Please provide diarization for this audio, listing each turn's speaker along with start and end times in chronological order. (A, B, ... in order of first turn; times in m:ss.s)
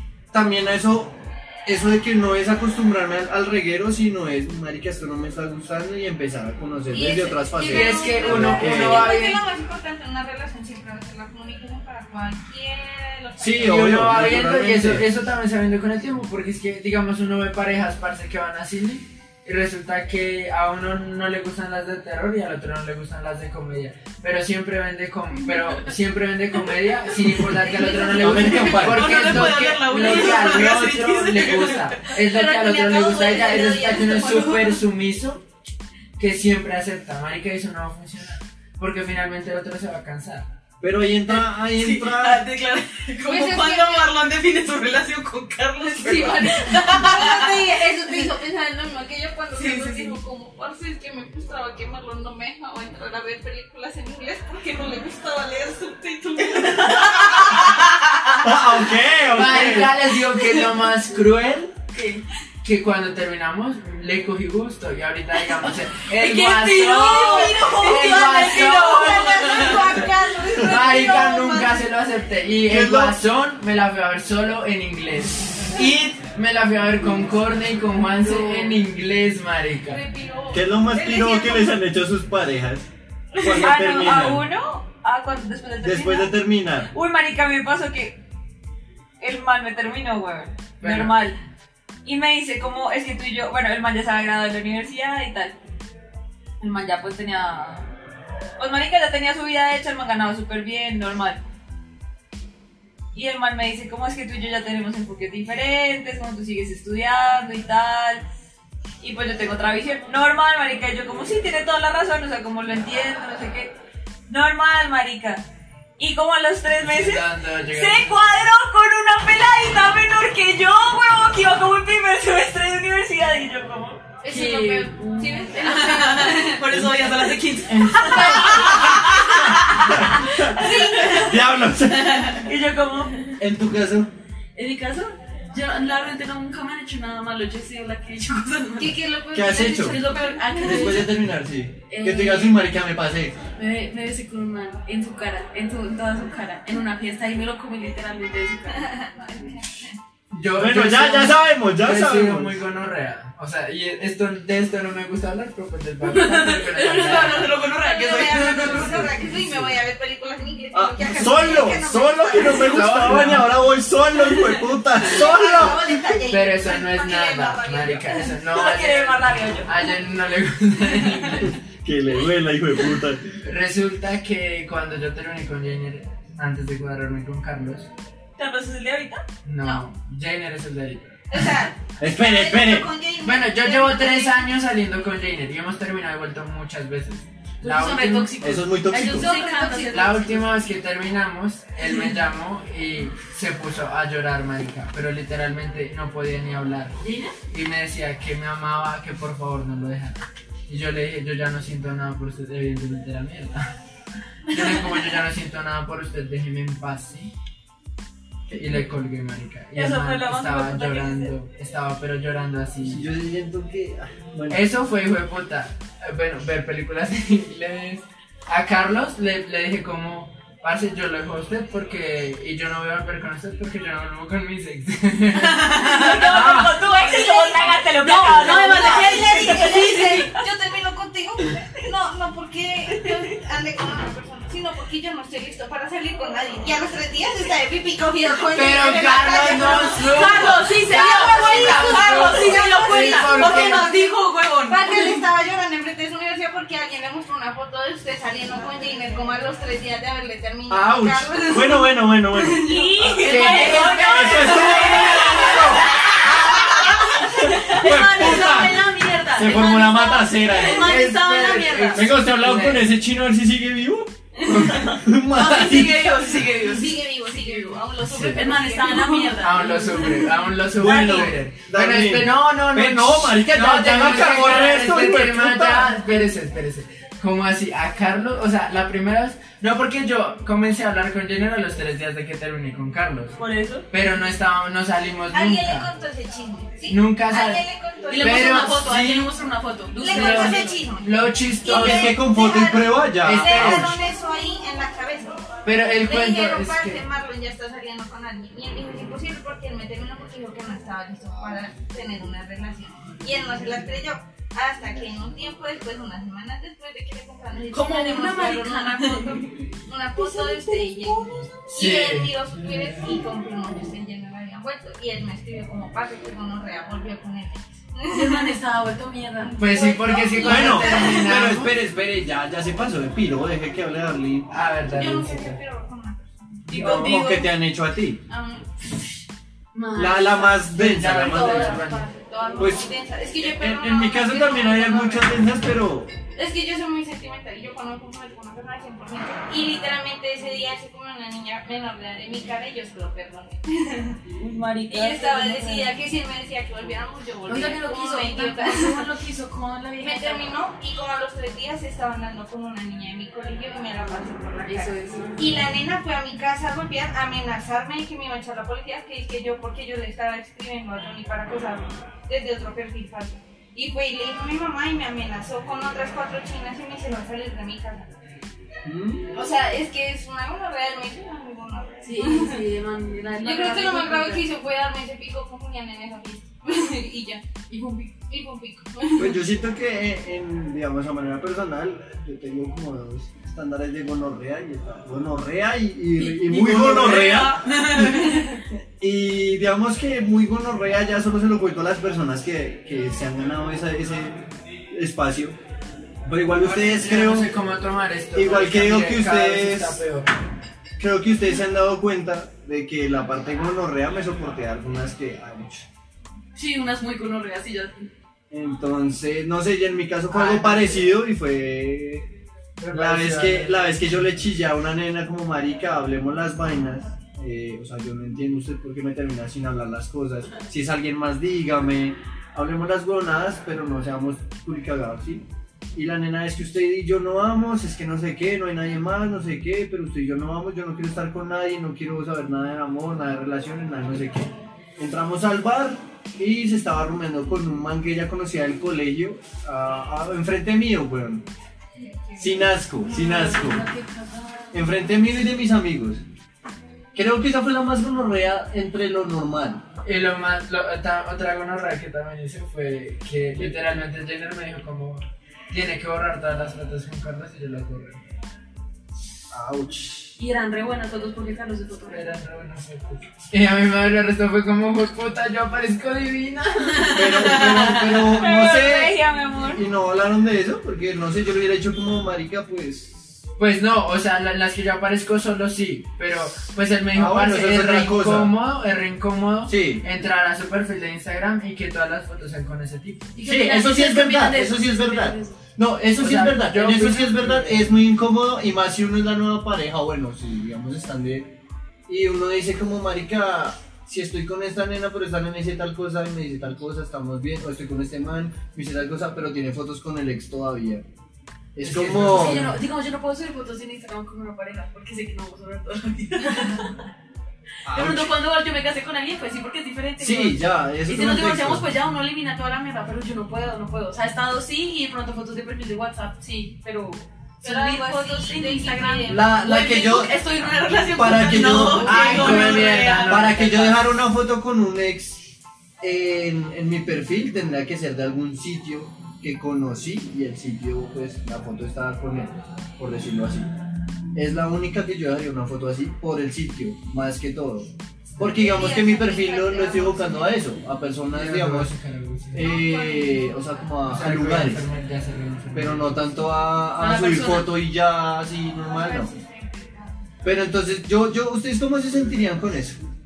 0:00.3-0:09.1 A
0:06.9-0:14.4 B
0:07.7-0:09.4 C
0:13.4-0:15.1 A
0:13.6-0:35.4 C
0:27.6-0:28.2 B
0:28.1-0:29.6 A
0:28.1-0:32.1 D
0:32.2-0:34.8 B
0:36.2-0:40.5 C
0:40.8-0:42.4 A
0:41.3-0:48.3 D
0:43.2-0:44.1 B
0:45.9-0:58.0 B
0:49.5-0:50.2 D
0:57.0-0:57.6 D
0:58.4-0:59.9 A
0:59.3-1:01.8 C
1:01.9-1:02.2 D
1:02.6-1:09.6 C
1:06.1-1:10.1 D
1:07.0-1:11.8 B
1:10.6-1:20.0 C
1:12.7-1:13.2 A
1:18.3-1:18.7 D
1:19.9-1:21.7 B
1:20.5-1:24.4 A
1:23.4-1:26.3 E
1:25.8-1:26.9 A
1:26.9-1:28.2 E
1:29.2-1:31.4 E
1:30.8-1:31.1 C
1:32.0-1:35.6 E
1:36.6-1:37.9 E
1:38.6-1:41.4 E
1:43.1-1:48.2 E
1:49.0-1:53.7 E
1:54.3-1:55.4 E
1:56.0-2:04.0 E
1:56.8-1:58.1 C
2:04.2-2:06.8 B
2:04.2-2:10.5 D
2:06.7-2:07.2 A
2:07.7-2:12.4 A
2:07.9-2:09.4 B
2:10.5-2:11.4 B
2:12.0-2:12.4 D
2:12.4-2:13.2 E
2:13.4-2:14.1 A
2:14.5-2:21.2 D
2:18.8-2:20.9 B
2:19.3-2:20.0 A
2:20.6-2:23.4 A
2:21.9-2:22.6 D
2:23.6-2:29.1 D
2:28.9-2:30.0 B
2:30.3-2:37.6 C
2:30.6-2:32.6 A
2:36.0-2:39.2 D
2:37.6-2:43.3 B
2:38.4-2:39.7 C
2:40.7-2:46.2 A
2:42.4-2:43.6 C
2:44.9-2:48.3 B
2:46.3-2:51.6 C
2:48.5-2:49.8 E
2:51.5-2:53.3 A
2:53.4-2:57.9 C
2:58.4-2:59.2 E
2:59.4-3:01.2 C
3:01.3-3:04.5 B
3:02.0-3:02.9 A
3:03.2-3:08.3 C
3:07.6-3:10.4 D
3:08.4-3:09.3 A
3:09.1-3:10.1 B
3:09.9-3:17.0 C
3:11.8-3:12.1 D
3:17.0-3:17.3 D
3:17.5-3:23.7 C
3:24.5-3:27.3 C
3:28.5-3:33.1 C
3:29.7-3:31.3 E
3:32.8-3:34.6 A
3:34.5-3:45.9 C
3:45.5-3:46.7 D
3:45.7-3:49.8 E
3:46.5-4:14.0 B
3:48.0-3:50.3 D
3:58.5-4:03.9 C
3:59.7-4:05.2 D
4:10.7-4:12.8 A
4:12.7-4:22.1 D
4:13.2-4:13.9 E
4:13.2-4:14.5 C
4:13.9-4:15.8 A
4:14.6-4:15.6 B
4:16.4-4:16.9 B
4:16.7-4:26.4 A
4:21.1-4:22.9 C
4:24.5-4:30.3 D
4:26.4-4:30.3 B
4:28.0-4:28.4 C
4:29.4-4:43.4 C
4:30.7-4:36.1 A
4:30.8-4:31.3 E
4:43.4-4:43.8 E
4:43.9-4:45.9 C
4:45.3-4:48.9 B
4:46.9-4:47.6 C
4:48.1-4:50.8 D
4:48.2-4:49.3 C
4:50.0-4:51.1 B
4:50.0-4:52.2 C
4:51.6-4:55.4 B
4:51.7-4:54.0 A
4:53.2-4:54.0 C
4:55.6-4:57.0 C
4:56.0-5:18.6 B
5:07.7-5:09.5 D
5:10.2-5:11.3 D
5:11.7-5:12.3 C
5:18.1-5:19.7 D
5:19.4-5:21.4 B
5:19.6-5:21.7 C
5:20.4-5:24.5 A
5:24.5-5:25.6 C
5:24.9-5:27.4 B
5:26.7-5:28.2 A
5:26.9-5:27.3 D
5:28.3-5:28.8 B
5:29.7-5:30.7 D
5:29.9-5:31.8 A
5:30.7-5:32.1 C
5:31.2-5:35.3 B
5:31.7-5:32.1 D
5:32.6-5:32.9 A
5:33.4-5:36.1 A
5:36.3-5:44.2 B
5:44.3-5:45.9 E
5:44.9-5:49.1 B
5:47.4-5:50.5 D
5:50.0-6:08.1 B
5:54.6-5:55.6 D
6:08.8-6:09.3 A
6:09.3-6:12.6 B
6:12.0-6:14.4 D
6:13.4-6:17.6 B
6:17.7-6:18.2 D
6:18.2-6:19.4 B
6:19.2-6:28.5 A
6:26.2-6:28.6 D
6:29.0-6:35.6 A
6:36.2-6:37.6 A
6:36.6-6:40.3 C
6:38.3-6:40.0 A
6:41.0-6:45.9 A
6:46.5-6:48.1 D
6:48.5-6:52.3 A
6:50.3-6:51.2 C
6:52.8-6:54.2 C
6:52.9-7:05.4 A
7:05.9-7:21.4 A
7:22.4-7:23.8 A
7:23.0-7:24.8 D
7:24.7-7:26.2 A
7:27.1-7:29.8 A
7:30.0-7:38.2 C
7:39.5-7:40.3 A
7:40.4-7:42.3 D
7:42.1-7:48.4 C
7:47.0-7:48.1 D
7:47.1-7:53.4 A
7:48.4-7:49.8 E
7:53.6-8:03.4 C
7:57.1-7:58.5 A
7:59.7-8:00.0 A
8:03.4-8:05.6 D
8:03.4-8:11.5 A
8:06.2-8:08.0 C
8:12.1-8:21.0 A
8:21.7-8:22.7 A
8:21.8-8:22.7 C
8:22.2-8:27.0 D
8:27.8-8:28.3 A
8:27.9-8:43.5 D
8:30.2-8:31.8 A
8:37.6-8:39.6 B
8:39.3-8:40.4 A
8:41.0-8:53.7 A
8:41.6-8:44.1 C
8:54.3-9:01.9 A
8:58.4-9:00.7 B
9:01.3-9:02.7 C
9:02.5-9:04.8 A
9:02.6-9:03.9 B
9:04.0-9:06.2 C
9:05.7-9:09.3 A
9:07.0-9:07.7 D
9:08.8-9:10.1 B
9:10.4-9:13.0 A